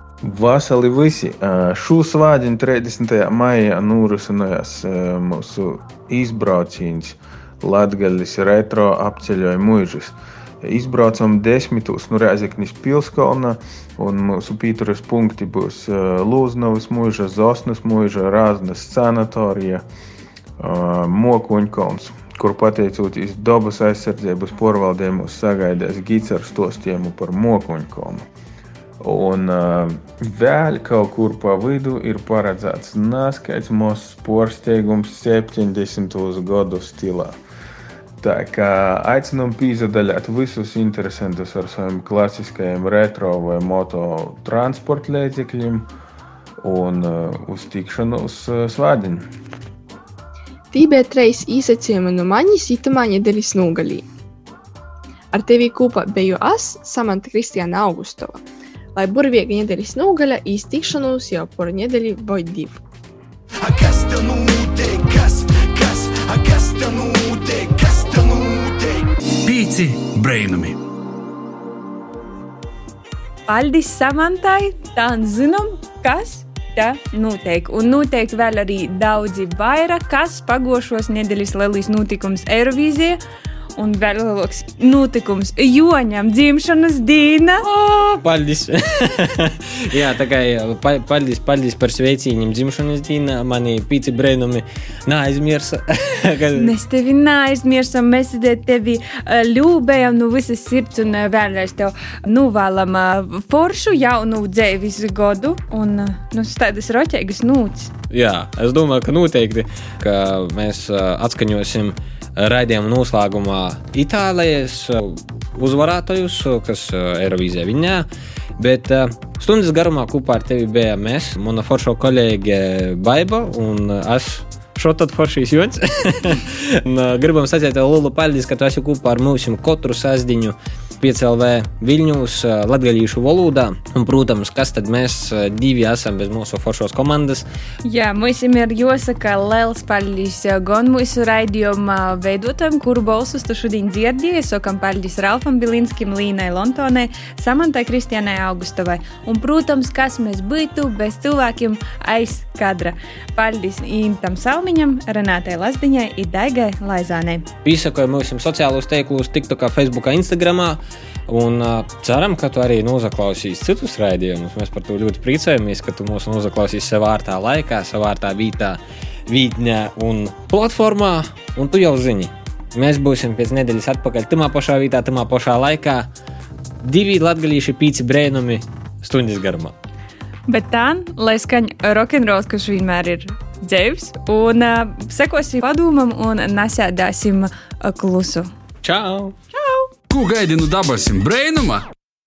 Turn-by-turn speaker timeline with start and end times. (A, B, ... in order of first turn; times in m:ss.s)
0:00.2-0:19.8 A
0:20.6-0:28.3 A
0:29.0-0:37.4 A
0:38.2-0:45.9 A
0:46.6-0:49.3 A
0:50.7-0:54.1 B
0:55.3-0:58.4 B
0:59.0-1:02.8 B
1:03.6-1:09.1 C
1:09.4-1:10.8 D
1:13.5-1:23.2 E
1:23.8-1:27.6 E
1:27.6-1:36.7 F
1:36.5-1:47.9 E
1:48.1-1:58.1 F
1:58.6-2:17.4 F
2:17.8-2:37.5 E
2:37.6-2:56.1 F
2:56.8-2:59.7 F
3:00.5-3:08.5 E
3:08.8-3:09.4 F
3:10.1-3:11.9 D